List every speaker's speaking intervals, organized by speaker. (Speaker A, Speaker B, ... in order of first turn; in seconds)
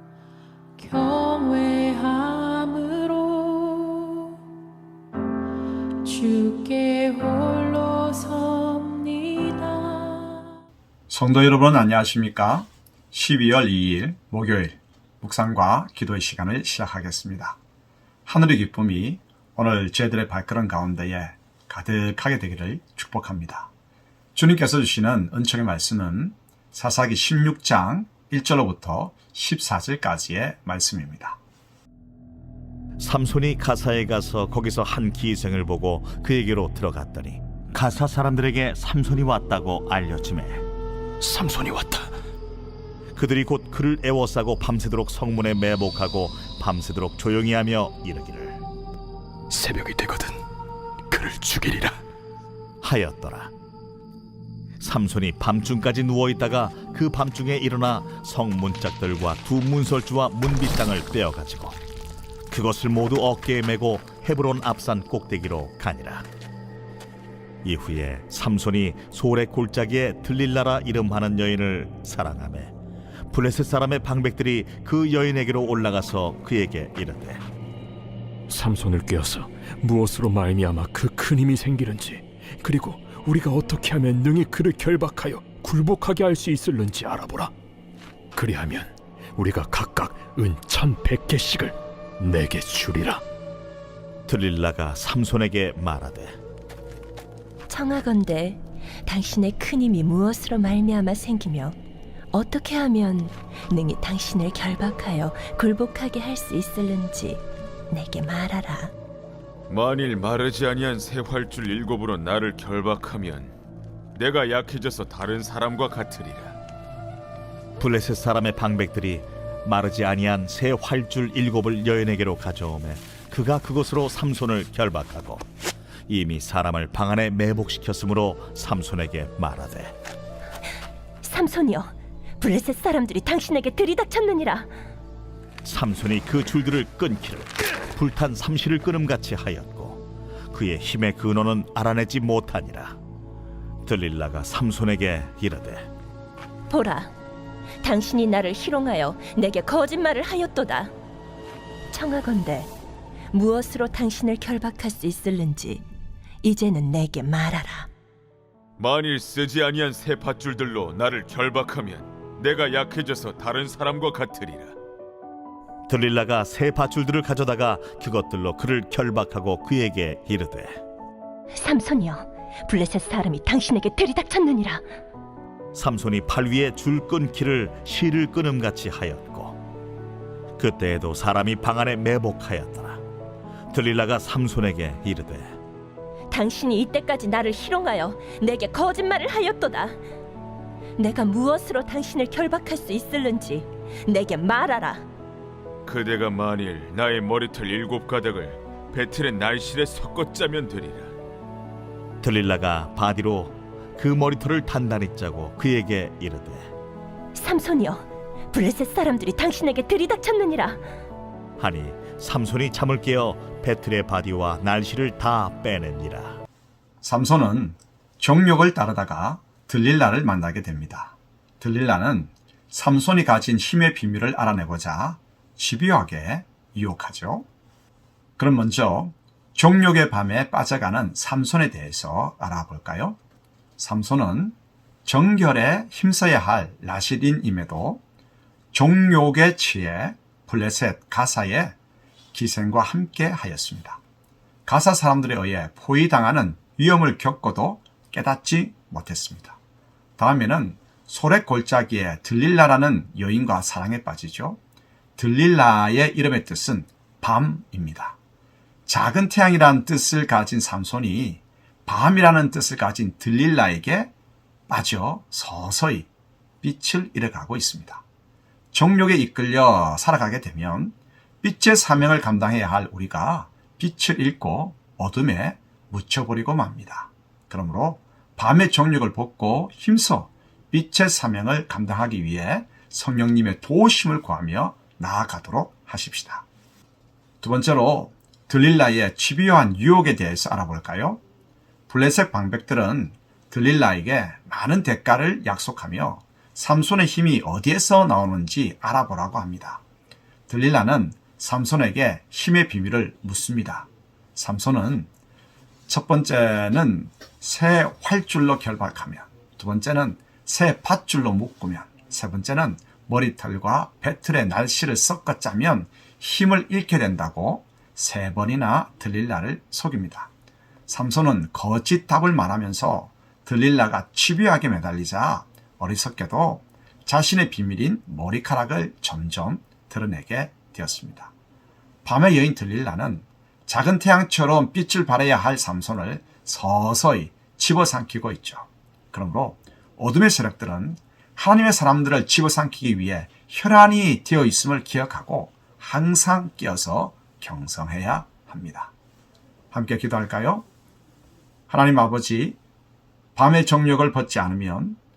Speaker A: 0.8-4.3, 6.0-10.4
Speaker B: 11.1-17.6, 18.2-23.7, 24.3-31.4, 217.0-227.4, 228.4-233.2, 233.8-238.0, 238.7-241.8, 242.3-244.0, 244.7-249.6, 250.2-254.6, 255.2-258.2, 258.9-264.1, 264.7-266.1, 266.6-268.0, 268.7-286.4, 287.4-291.2, 291.9-299.8, 300.5-305.1, 305.9-320.3, 320.9-331.3, 332.0-348.9, 349.7-350.6, 351.7-352.6, 353.4-355.0
Speaker C: 33.0-40.6, 43.1-48.6, 52.8-53.5, 54.8-61.8, 62.5-66.3, 67.6-72.7, 73.3-77.4, 94.3-96.4, 117.8-125.5, 126.1-129.9, 135.6-143.0, 143.8-145.9, 165.9-170.8, 175.7-179.6, 180.6-183.0, 183.7-185.5, 202.2-206.7, 211.6-216.4
Speaker D: 41.2-42.1, 49.5-50.4, 51.1-52.0, 78.5-87.5, 88.3-93.2
Speaker E: 97.7-101.7, 102.3-108.9, 131.2-131.9, 132.4-134.6, 146.7-147.1, 147.8-150.9, 151.9-152.7, 153.3-155.8, 156.4-157.9, 171.6-174.8, 186.3-189.9, 191.0-195.0, 207.3-208.0, 208.5-210.8
Speaker F: 109.7-113.5, 114.2-116.6, 158.8-164.7, 195.8-201.1